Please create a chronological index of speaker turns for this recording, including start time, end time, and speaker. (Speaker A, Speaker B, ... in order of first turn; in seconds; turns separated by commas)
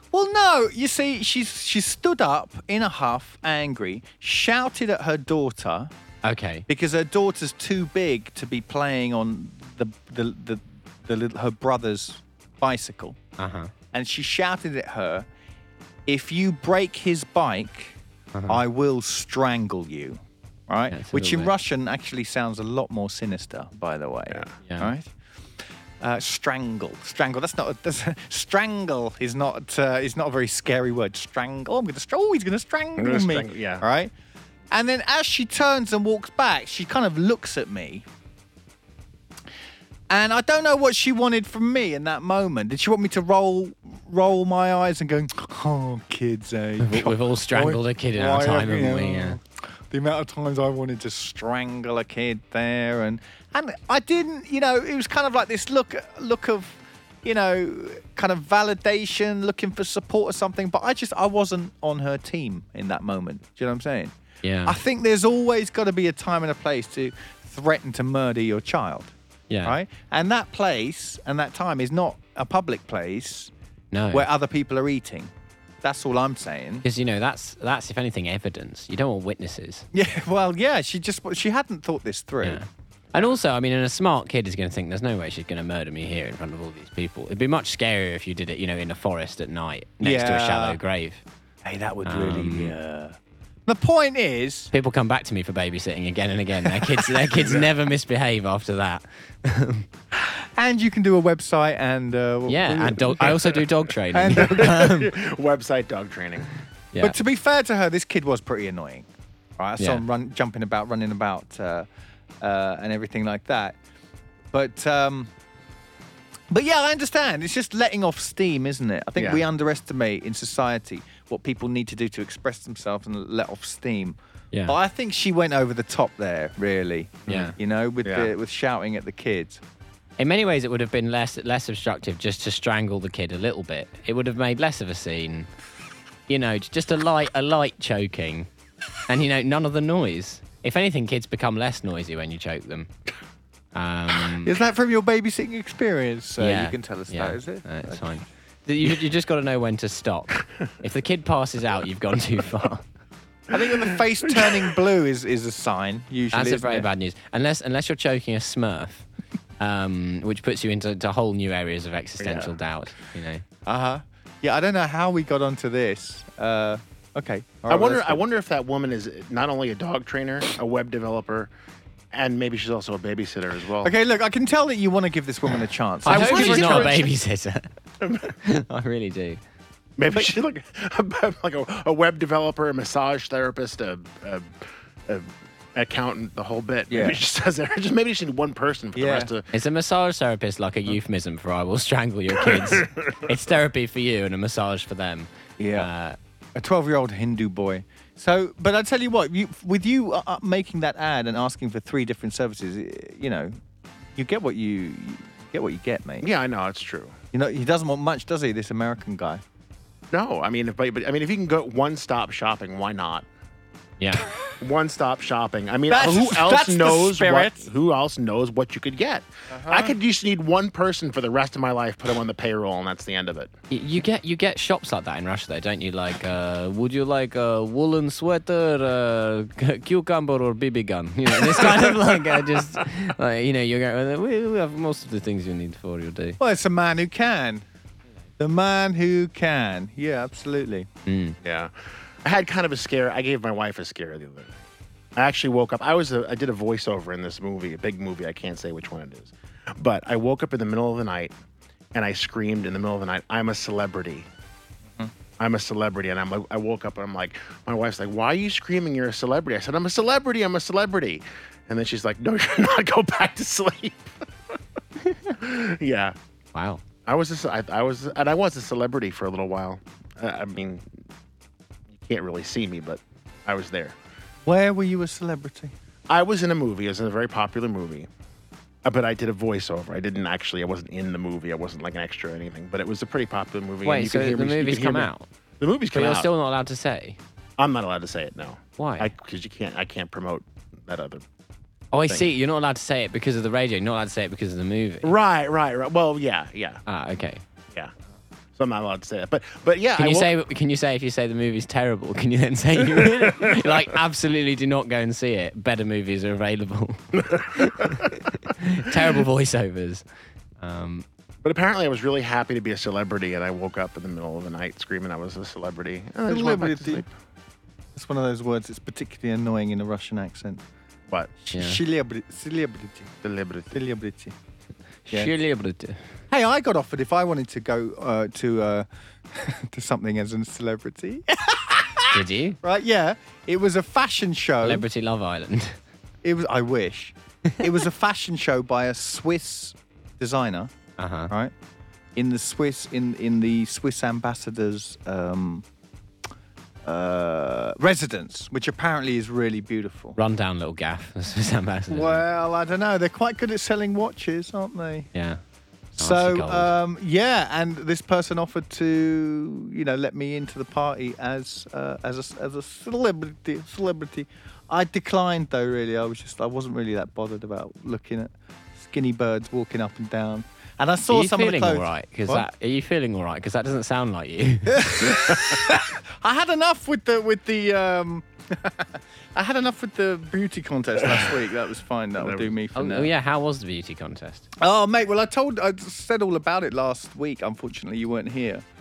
Speaker A: 0.1-5.9, Speaker B: 6.2-6.7, Speaker A: 6.7-13.2, Speaker B: 13.4-13.7, Speaker A: 13.9-15.3, Speaker A: 16.1-18.0, Speaker B: 18.3-18.6, Speaker A: 18.5-25.1, Speaker B: 20.9-21.5, Speaker B: 24.6-24.9, Speaker A: 26.0-34.1, Speaker C: 33.0-33.8, Speaker A: 34.7-38.0, Speaker A: 40.1-73.5, Speaker B: 46.8-49.4, Speaker B: 64.4-64.8, Speaker B: 69.5-69.7, Speaker B: 73.9-74.3, Speaker A: 74.1-76.8, Speaker B: 76.8-79.9, Speaker A: 79.9-82.6, Speaker B: 82.4-91.2, Speaker A: 90.0-90.8, Speaker A: 91.6-94.7, Speaker B: 92.0-92.7, Speaker B: 94.7-99.8, Speaker A: 96.6-97.2, Speaker A: 100.1-104.8, Speaker B: 102.5-105.1, Speaker C: 104.4-106.5, Speaker B: 106.9-107.2, Speaker A: 107.0-111.9, Speaker A: 112.4-113.8, Speaker A: 114.5-115.3, Speaker A: 116.5-129.6, Speaker C: 119.2-119.4, Speaker C: 127.3-127.5, Speaker B: 127.3-127.5, Speaker C: 128.0-128.3, Speaker B: 130.2-135.5, Speaker B: 136.3-138.5, Speaker B: 139.1-142.9, Speaker B: 143.7-144.5, Speaker A: 144.4-148.2, Speaker B: 146.4-152.8, Speaker A: 153.5-156.9, Speaker C: 153.6-154.5, Speaker B: 156.3-159.1, Speaker B: 159.6-163.4, Speaker C: 162.2-162.5, Speaker A: 163.7-168.2, Speaker C: 167.7-171.5, Speaker C: 172.1-173.9, Speaker A: 173.8-177.0, Speaker B: 176.0-177.7, Speaker C: 176.1-177.1, Speaker C: 178.0-178.3, Speaker B: 178.4-179.4, Speaker C: 180.0-184.5, Speaker A: 180.1-180.4, Speaker C: 185.1-189.5, Speaker A: 186.9-187.2, Speaker A: 188.9-189.3, Speaker B: 189.5-196.2, Speaker C: 192.5-192.8, Speaker A: 195.6-195.9, Speaker A: 196.5-203.6, Speaker A: 204.1-206.3, Speaker C: 206.2-207.2, Speaker A: 207.3-209.4, Speaker C: 210.1-213.3, Speaker B: 214.0-214.3, Speaker C: 214.6-223.5, Speaker A: 215.9-217.7, Speaker A: 219.5-219.9, Speaker B: 223.7-236.4, Speaker A: 236.4-237.7, Speaker A: 238.4-240.9, Speaker B: 241.1-241.4, Speaker C: 241.4-241.7, Speaker C: 242.2-244.6, Speaker C: 245.2-251.3, Speaker C: 251.9-254.3, Speaker C: 255.4-264.1, Speaker C: 265.3-266.2, Speaker B: 266.5-266.8, Speaker C: 267.1-270.8, Speaker C: 272.0-274.0, Speaker A: 274.4-275.7, Speaker C: 276.1-278.1, Speaker C: 278.9-286.3, Speaker B: 283.8-285.3, Speaker B: 285.9-287.2, Speaker C: 287.6-291.2, Speaker B: 288.8-289.1, Speaker B: 291.9-295.1, Speaker C: 295.0-296.8, Speaker B: 296.9-297.4, Speaker C: 298.6-300.3, Speaker B: 300.0-310.0, Speaker C: 303.0-303.8, Speaker B: 310.6-311.1, Speaker C: 311.4-317.1, Speaker A: 316.2-317.1, Speaker A: 317.9-320.6, Speaker A: 321.4-323.1, Speaker B: 321.5-321.8, Speaker C: 323.2-323.8, Speaker A: 323.7-324.4, Speaker B: 325.1-326.0, Speaker A: 326.3-334.9, Speaker B: 332.1-332.6, Speaker B: 334.6-335.8, Speaker A: 336.2-340.7, Speaker B: 341.0-341.3, Speaker A: 342.1-345.6, Speaker A: 346.8-350.2, Speaker B: 350.2-352.2, Speaker A: 351.9-355.1, Speaker B: 355.1-355.4, Speaker A: 356.0-372.5, Speaker B: 356.0-356.7, Speaker B: 371.1-374.9, Speaker A: 374.7-383.1, Speaker C: 375.1-375.6, Speaker C: 381.0-381.4, Speaker C: 382.2-382.5, Speaker B: 382.8-384.5, Speaker A: 384.6-388.6